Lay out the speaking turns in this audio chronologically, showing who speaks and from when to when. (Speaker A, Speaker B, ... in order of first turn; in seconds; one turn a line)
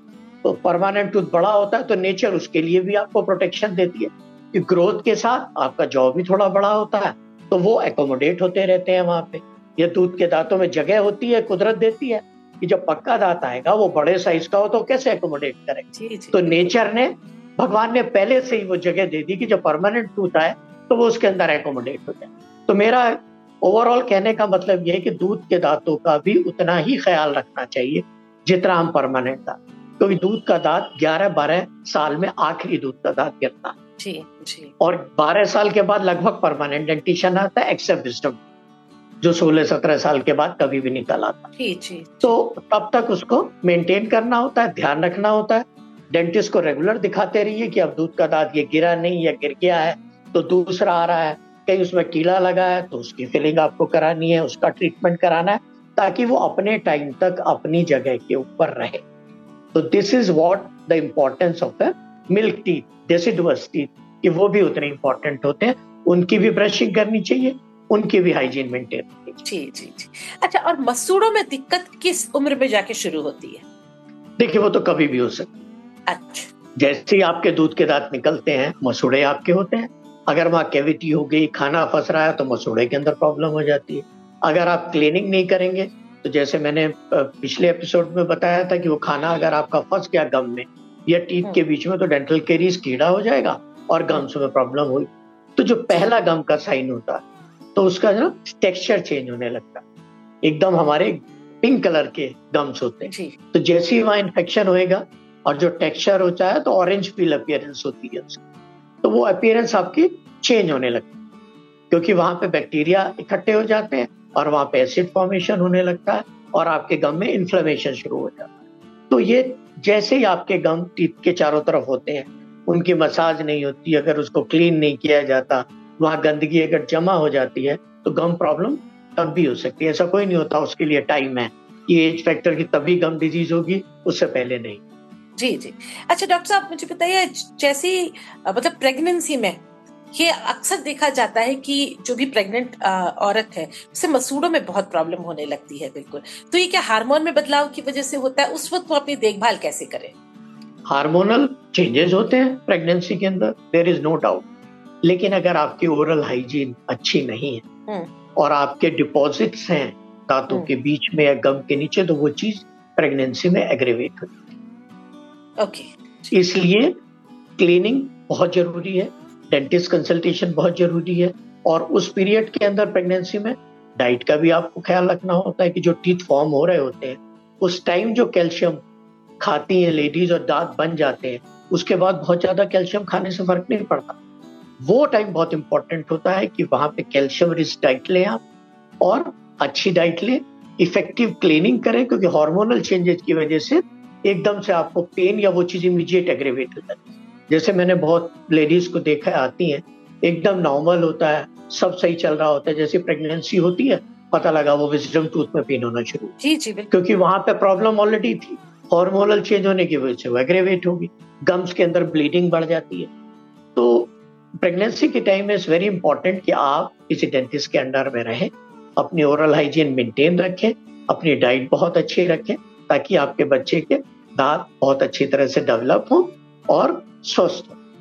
Speaker A: 0.4-33.8
Speaker B: 15.9-16.4
Speaker B: 34.0-34.7
Speaker A: 34.8-38.4
Speaker A: 39.2-41.5
Speaker B: 41.6-42.3
Speaker A: 42.2-59.0
Speaker A: 59.7-69.4
Speaker B: 69.4-73.6
Speaker A: 74.4-75.6
Speaker B: 76.1-76.5
Speaker A: 76.8-97.2
Speaker A: 97.8-99.8
Speaker A: 100.4-108.4
Speaker B: 103.1-103.3
Speaker A: 109.0-111.1
Speaker A: 111.9-118.5
Speaker A: 119.1-134.8
Speaker B: 135.4-139.6
Speaker B: 140.1-150.1
Speaker A: 150.9-154.4
Speaker A: 155.0-157.6
Speaker A: 158.4-164.3
Speaker B: 165.6-166.3
Speaker A: 166.3-167.0
Speaker A: 167.6-178.8
Speaker A: 179.4-184.2
Speaker A: 184.8-188.4
Speaker A: 189.0-206.3
Speaker B: 206.4-206.9
Speaker A: 206.9-213.1
Speaker A: 213.8-227.8